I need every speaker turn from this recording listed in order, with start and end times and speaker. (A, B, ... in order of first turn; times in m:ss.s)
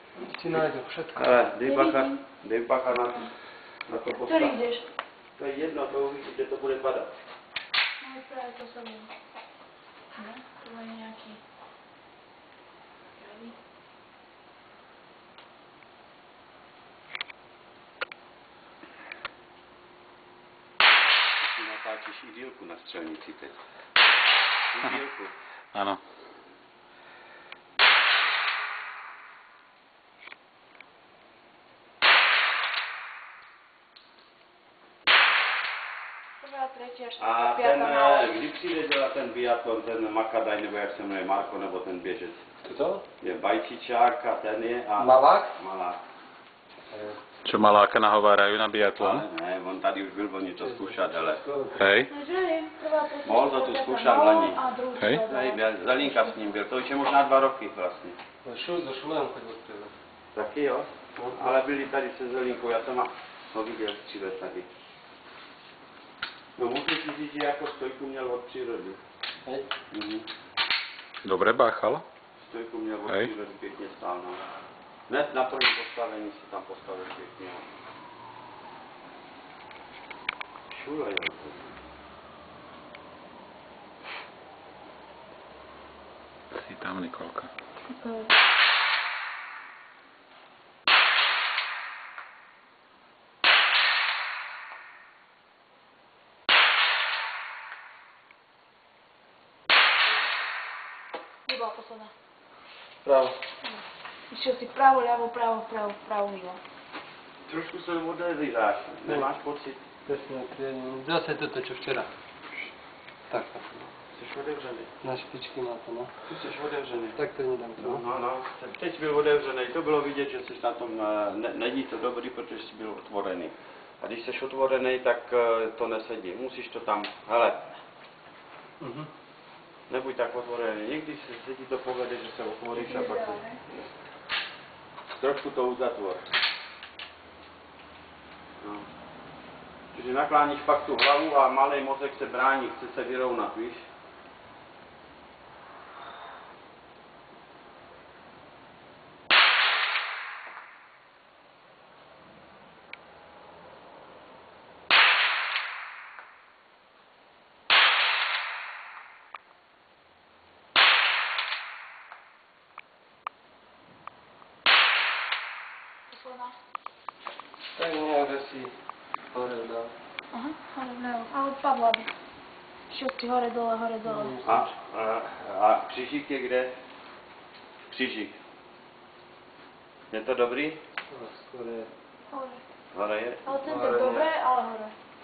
0:00.2-0:01.4 A
0:01.2-0:03.3 B
0:01.7-0:02.2 C
0:03.9-0:04.6 B
0:04.2-0:04.8 C
0:05.4-0:07.1 B
0:08.0-0:09.1 C
0:10.2-0:11.4 C
0:13.2-0:13.5 C
0:21.4-0:23.6 B
0:24.7-0:25.4 B
0:25.7-0:26.0 D
0:36.4-0:38.4 C
0:37.2-0:42.4 B
0:42.6-0:43.0 A
0:43.2-0:46.0 B
0:45.0-0:45.5 A
0:46.9-0:47.2 A
0:47.4-0:49.2 D
0:49.0-0:51.4 B
0:50.6-0:51.9 A
0:51.7-0:52.1 D
0:52.1-0:56.4 C
0:53.2-0:54.6 B
0:55.0-0:55.2 D
0:55.3-0:58.2 B
0:58.4-0:59.9 A
1:00.3-1:04.7 B
1:01.2-1:01.6 A
1:06.6-1:09.0 B
1:09.9-1:10.3 B
1:11.2-1:12.0 D
1:12.4-1:14.4 B
1:15.1-1:17.6 B
1:20.7-1:21.8 B
1:26.5-1:27.5 D
1:27.9-1:28.3 C
1:41.5-1:42.1 C
1:43.0-1:43.4 A
1:43.6-1:46.6 C
1:47.5-1:49.8 B
1:50.1-1:52.1 A
1:53.3-1:53.9 A
1:54.1-1:54.9 B
1:55.0-1:56.1 A
1:56.3-1:57.2 B
1:57.2-1:58.0 A
1:57.8-2:07.8 B
2:08.8-2:09.1 A
2:09.9-2:13.4 B
2:12.7-2:13.6 C
2:15.2-2:16.2 B
2:18.6-2:18.9 B
2:19.9-2:23.8 B
2:46.1-2:46.6 C
2:47.8-2:48.7 A
2:49.3-2:49.9 A
2:50.3-2:52.1 C
2:52.9-2:54.5 C
2:54.0-2:54.7 A
2:54.4-2:56.7 B
2:57.9-2:58.4 B
3:00.1-3:00.8 B
3:01.1-3:01.9 A
3:02.3-3:02.6 C
3:02.9-3:03.5 B
3:03.4-3:04.9 C
3:03.6-3:04.3 A